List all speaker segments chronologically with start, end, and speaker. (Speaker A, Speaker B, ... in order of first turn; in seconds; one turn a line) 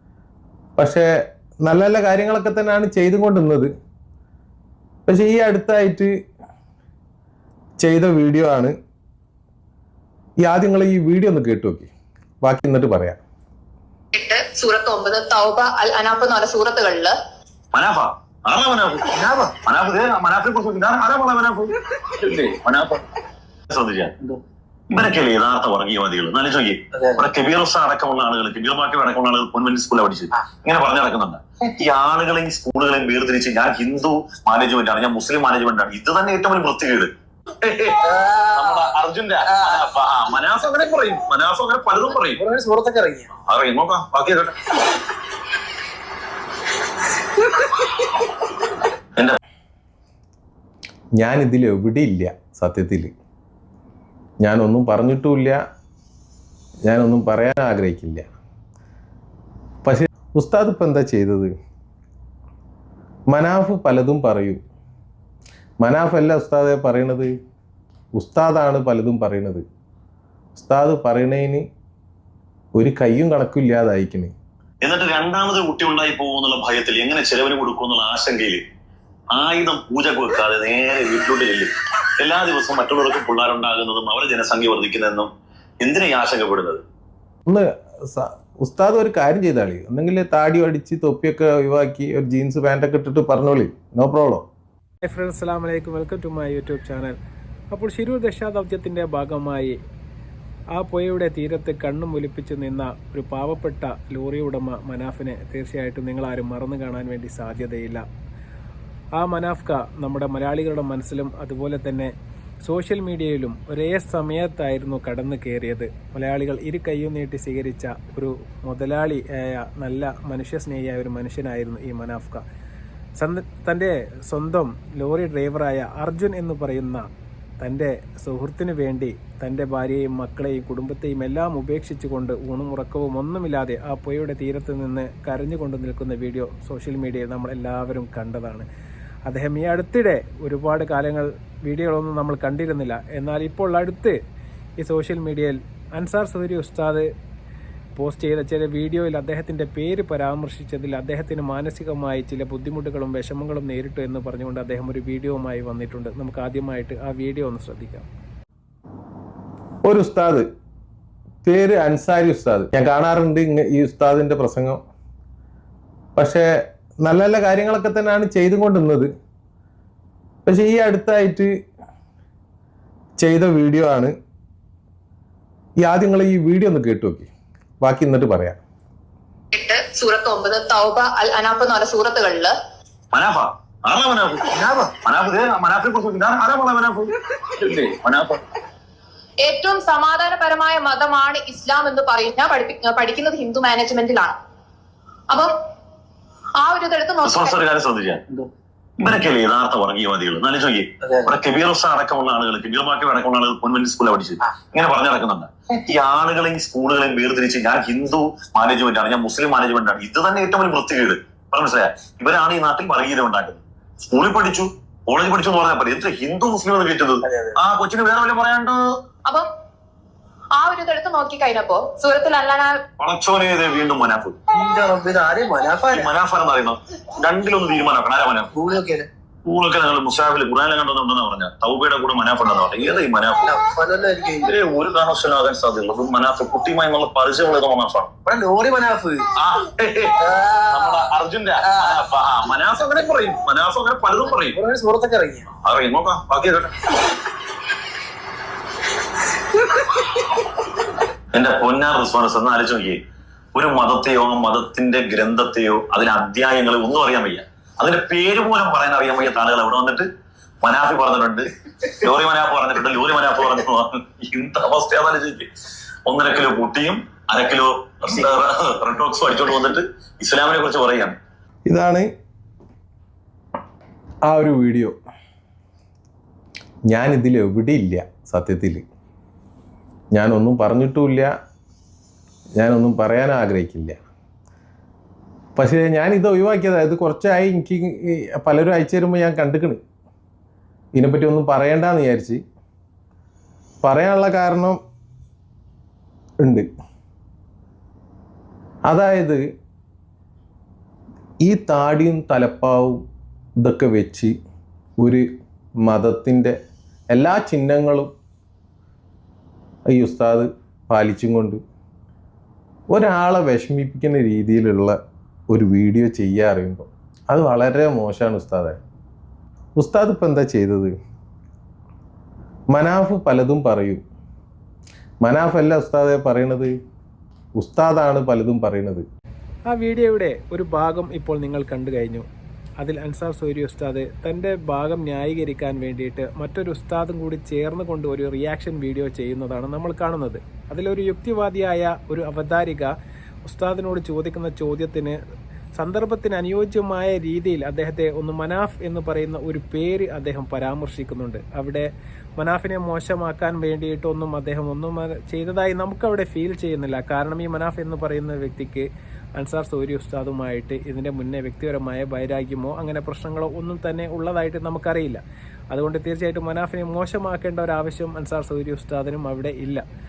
Speaker A: 0.8-1.1
Speaker A: 1.6-3.7
Speaker A: 5.1-6.1
Speaker A: 7.8-8.7
Speaker A: 10.4-11.9
Speaker A: 12.4-13.2
Speaker B: 14.1-17.1
Speaker C: 17.7-23.0
Speaker D: 19.1-19.6
Speaker D: 22.2-22.7
Speaker C: 23.7-24.1
Speaker C: 24.9-42.4
Speaker D: 27.0-27.3
Speaker D: 38.0-38.9
Speaker D: 39.5-39.8
Speaker D: 42.4-43.3
Speaker C: 43.5-44.5
Speaker A: 51.2-53.1
Speaker A: 54.4-55.6
Speaker A: 56.8-58.2
Speaker A: 59.8-61.5
Speaker A: 63.3-64.6
Speaker A: 65.8-67.3
Speaker A: 68.2-69.6
Speaker A: 70.5-71.6
Speaker A: 72.7-74.3
Speaker C: 74.8-78.6
Speaker C: 79.3-86.8
Speaker A: 87.5-94.4
Speaker E: 95.0-97.2
Speaker E: 97.7-99.8
Speaker E: 100.7-108.0
Speaker E: 109.2-122.4
Speaker E: 123.2-127.1
Speaker E: 127.6-138.7
Speaker E: 139.3-144.2
Speaker E: 144.8-147.1
Speaker E: 147.9-158.1
Speaker A: 159.8-160.4
Speaker A: 161.4-164.8
Speaker A: 166.2-166.5
Speaker A: 167.0-169.1
Speaker A: 170.4-171.5
Speaker A: 173.2-174.1
Speaker A: 175.8-177.3
Speaker A: 177.8-178.6
Speaker B: 179.5-182.5
Speaker C: 183.1-188.4
Speaker B: 189.4-194.3
Speaker B: 196.6-197.6
Speaker C: 197.2-198.2
Speaker C: 199.0-218.8
Speaker D: 201.1-201.3
Speaker D: 217.2-217.5
Speaker B: 220.6-222.8
Speaker C: 223.0-224.4
Speaker D: 224.5-226.1
Speaker C: 225.9-228.5
Speaker D: 228.5-229.1
Speaker C: 229.4-233.5
Speaker D: 233.4-234.5
Speaker C: 234.4-238.2
Speaker D: 238.2-239.3
Speaker C: 239.3-244.6
Speaker D: 240.2-241.1
Speaker D: 241.6-242.1
Speaker D: 244.5-245.5
Speaker C: 245.5-246.7
Speaker C: 251.3-253.0
Speaker C: 253.5-260.1
Speaker C: 260.6-265.5
Speaker C: 266.1-271.1
Speaker A: 271.7-272.1
Speaker A: 274.2-274.9
Speaker A: 276.9-278.8
Speaker A: 280.1-281.3
Speaker A: 282.6-283.9
Speaker A: 285.6-289.8
Speaker A: 290.9-292.4
Speaker A: 293.8-294.8
Speaker A: 298.9-299.4
Speaker A: 301.4-303.0
Speaker A: 303.6-304.3
Speaker A: 305.8-306.5
Speaker A: 307.1-308.1
Speaker A: 309.9-311.6
Speaker A: 312.9-314.9
Speaker A: 315.5-318.8
Speaker A: 319.8-320.9
Speaker A: 322.7-324.0
Speaker A: 325.2-326.7
Speaker A: 327.6-329.0
Speaker E: 329.7-332.3
Speaker E: 332.8-342.9
Speaker E: 343.4-345.2
Speaker E: 345.8-369.8